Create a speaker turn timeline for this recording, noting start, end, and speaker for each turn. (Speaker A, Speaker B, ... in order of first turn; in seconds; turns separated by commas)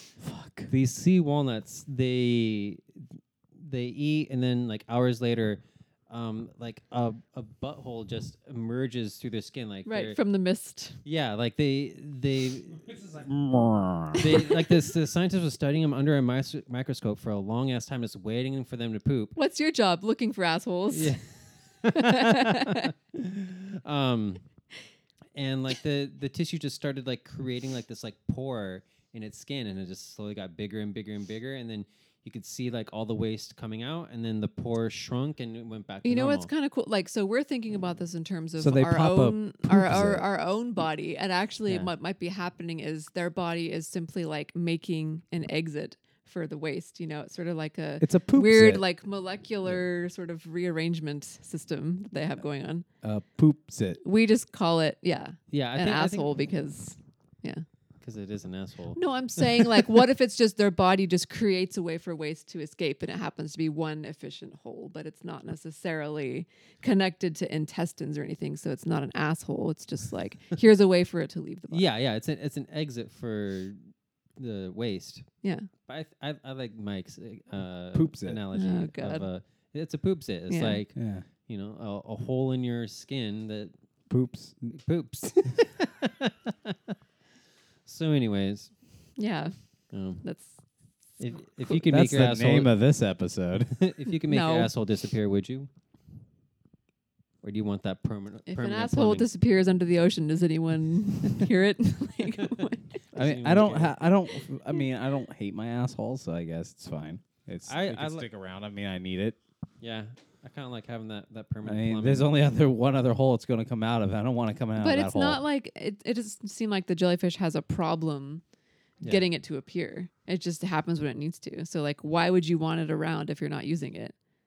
Speaker A: 0.2-0.7, Speaker B: 0.7-10.2, Speaker C: 9.9-11.0, Speaker B: 11.0-12.9, Speaker A: 12.9-14.3, Speaker B: 14.1-19.4, Speaker C: 19.4-21.2, Speaker B: 20.9-24.4, Speaker C: 21.9-22.9, Speaker B: 25.4-36.5, Speaker C: 36.0-52.9, Speaker A: 38.6-40.2, Speaker A: 48.0-48.8, Speaker A: 53.0-54.0, Speaker C: 54.0-57.6, Speaker B: 55.5-56.3, Speaker B: 58.0-59.7, Speaker C: 58.9-71.8, Speaker B: 71.7-73.8, Speaker B: 74.4-75.2, Speaker C: 75.4-75.7, Speaker B: 75.9-83.7, Speaker A: 77.9-78.4, Speaker C: 78.5-79.3, Speaker C: 80.5-80.8, Speaker A: 80.9-81.2, Speaker A: 84.1-84.7, Speaker B: 84.7-86.7, Speaker B: 87.9-88.7, Speaker C: 89.2-89.5, Speaker B: 89.9-90.2, Speaker C: 90.2-90.5, Speaker B: 91.2-92.7, Speaker A: 91.8-93.8, Speaker B: 93.7-95.7, Speaker C: 94.3-94.7, Speaker B: 97.4-99.3, Speaker C: 98.5-103.0, Speaker B: 102.4-104.0, Speaker A: 103.1-109.4, Speaker B: 107.7-108.2, Speaker B: 109.8-112.3, Speaker A: 111.6-115.4, Speaker C: 114.8-118.4, Speaker B: 119.0-119.3, Speaker C: 119.0-124.1